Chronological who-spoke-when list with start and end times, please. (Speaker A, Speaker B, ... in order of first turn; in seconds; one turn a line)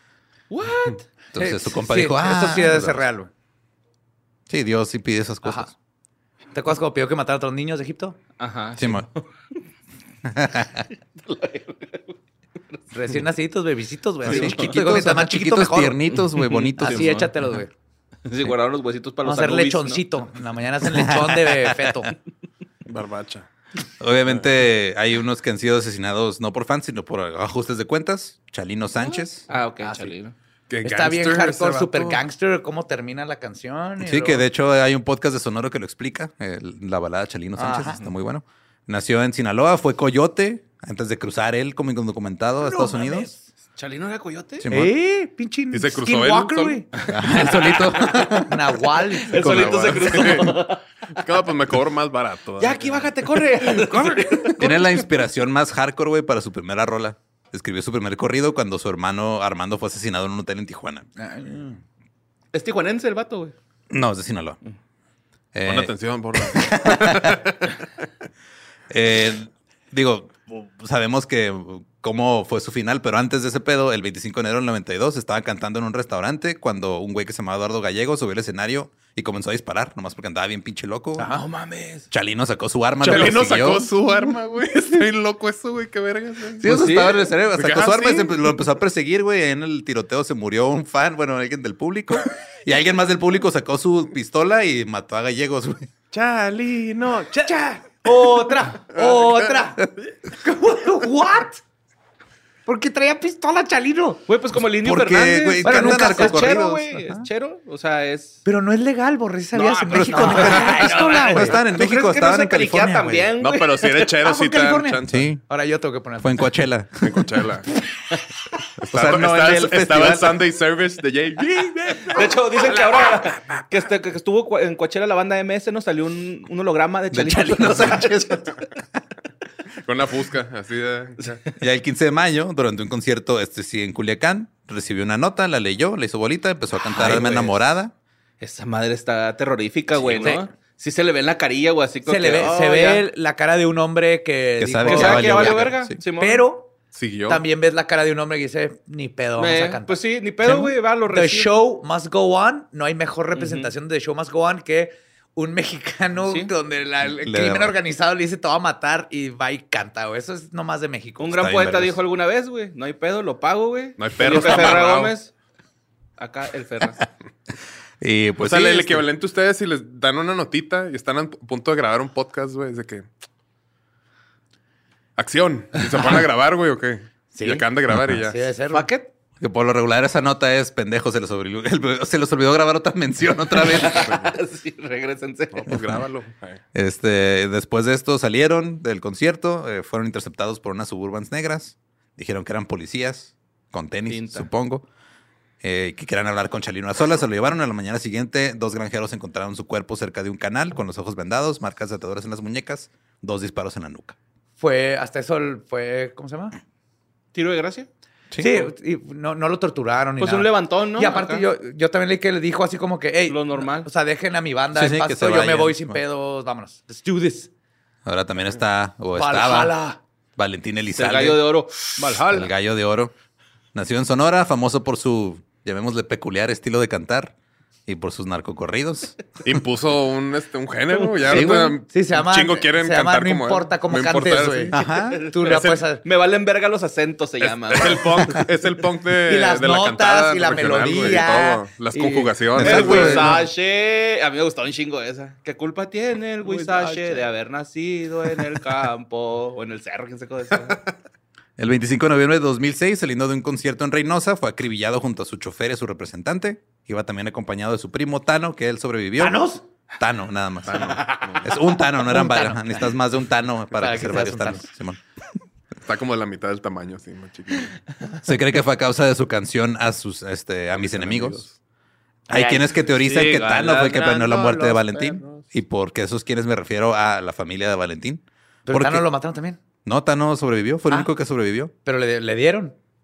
Speaker A: 0.5-1.0
Speaker B: 1.3-3.0
Speaker C: 1.4-3.3
Speaker B: 4.5-5.7
Speaker C: 5.4-5.7
Speaker C: 6.5-8.2
Speaker A: 8.4-9.3
Speaker B: 8.8-9.1
Speaker B: 10.3-10.9
Speaker A: 11.3-12.2
Speaker C: 12.9-16.1
Speaker B: 14.2-17.3
Speaker A: 14.3-14.6
Speaker A: 16.3-17.3
Speaker C: 16.8-17.7
Speaker A: 18.3-20.1
Speaker C: 19.2-22.1
Speaker B: 21.0-21.9
Speaker D: 22.9-23.5
Speaker B: 24.0-29.5
Speaker A: 29.5-30.4
Speaker D: 30.7-32.2
Speaker C: 30.8-34.5
Speaker B: 34.0-43.3
Speaker C: 37.6-38.0
Speaker C: 42.6-43.4
Speaker A: 43.8-44.7
Speaker B: 44.6-44.9
Speaker C: 44.7-46.9
Speaker D: 45.7-46.9
Speaker B: 47.1-48.6
Speaker A: 47.3-47.8
Speaker C: 48.4-50.0
Speaker A: 49.3-50.8
Speaker D: 49.4-53.3
Speaker A: 52.6-54.7
Speaker B: 54.5-61.1
Speaker C: 61.2-61.8
Speaker A: 62.5-63.5
Speaker B: 63.9-64.6
Speaker B: 65.5-67.3
Speaker D: 65.6-67.6
Speaker B: 68.9-81.3
Speaker C: 81.2-81.4
Speaker A: 81.3-82.1
Speaker B: 82.1-83.9
Speaker D: 83.0-88.6
Speaker B: 86.6-95.9
Speaker A: 86.6-87.3
Speaker D: 96.1-97.5
Speaker C: 97.4-101.6
Speaker D: 98.9-99.6
Speaker C: 102.7-104.2
Speaker A: 104.3-108.4
Speaker B: 104.8-107.3
Speaker C: 105.6-106.6
Speaker C: 108.5-111.6
Speaker A: 109.5-114.1
Speaker B: 109.9-113.3
Speaker D: 113.4-115.3
Speaker C: 114.2-116.5
Speaker B: 115.1-115.4
Speaker B: 116.2-117.2
Speaker D: 117.0-117.7
Speaker D: 118.8-123.7
Speaker B: 118.9-120.4
Speaker A: 122.1-128.5
Speaker B: 127.1-128.4
Speaker D: 129.8-131.4
Speaker B: 131.6-137.9
Speaker D: 137.1-137.6
Speaker A: 138.4-143.1
Speaker B: 140.0-140.4
Speaker C: 142.1-146.8
Speaker B: 144.6-146.0
Speaker A: 144.9-146.4
Speaker D: 146.9-147.4
Speaker C: 147.3-161.4
Speaker A: 149.4-151.5
Speaker A: 153.3-153.7
Speaker A: 156.2-156.5
Speaker B: 157.2-157.7
Speaker A: 161.2-165.3
Speaker B: 161.3-162.0
Speaker D: 164.0-165.2
Speaker A: 166.2-167.0
Speaker B: 168.0-169.1
Speaker D: 168.4-173.1
Speaker D: 175.2-178.4
Speaker C: 177.3-178.9
Speaker B: 177.9-178.2
Speaker A: 178.7-179.1
Speaker B: 179.4-184.1
Speaker A: 183.6-185.7
Speaker D: 183.9-184.3
Speaker D: 185.6-186.6
Speaker B: 185.7-186.0
Speaker B: 186.7-194.8
Speaker A: 194.1-194.5
Speaker B: 195.6-204.2
Speaker C: 204.6-206.6
Speaker A: 207.3-207.9
Speaker B: 208.3-208.7
Speaker C: 208.4-217.5
Speaker A: 210.2-211.5
Speaker A: 213.3-213.9
Speaker B: 214.8-216.0
Speaker B: 218.1-219.8
Speaker C: 219.1-220.0
Speaker B: 220.4-221.5
Speaker A: 220.9-222.5
Speaker D: 222.0-222.5
Speaker B: 222.2-223.1
Speaker B: 223.7-227.3
Speaker B: 227.9-229.2
Speaker D: 229.4-234.8
Speaker A: 230.9-231.7
Speaker C: 231.3-236.0
Speaker B: 234.7-235.3
Speaker A: 235.2-238.3
Speaker D: 235.4-235.8
Speaker D: 237.4-243.4
Speaker C: 239.3-242.4
Speaker B: 242.6-243.3
Speaker A: 242.6-250.8
Speaker D: 246.8-247.2
Speaker B: 251.6-259.4
Speaker C: 259.2-259.6
Speaker B: 260.0-265.0
Speaker D: 260.6-261.6
Speaker C: 262.1-262.9
Speaker C: 263.7-264.7
Speaker D: 265.9-267.8
Speaker B: 268.2-271.5
Speaker D: 270.7-271.6
Speaker B: 272.3-279.1
Speaker A: 272.3-274.9
Speaker D: 274.9-275.5
Speaker C: 278.7-279.6
Speaker B: 279.8-281.7
Speaker C: 281.9-282.8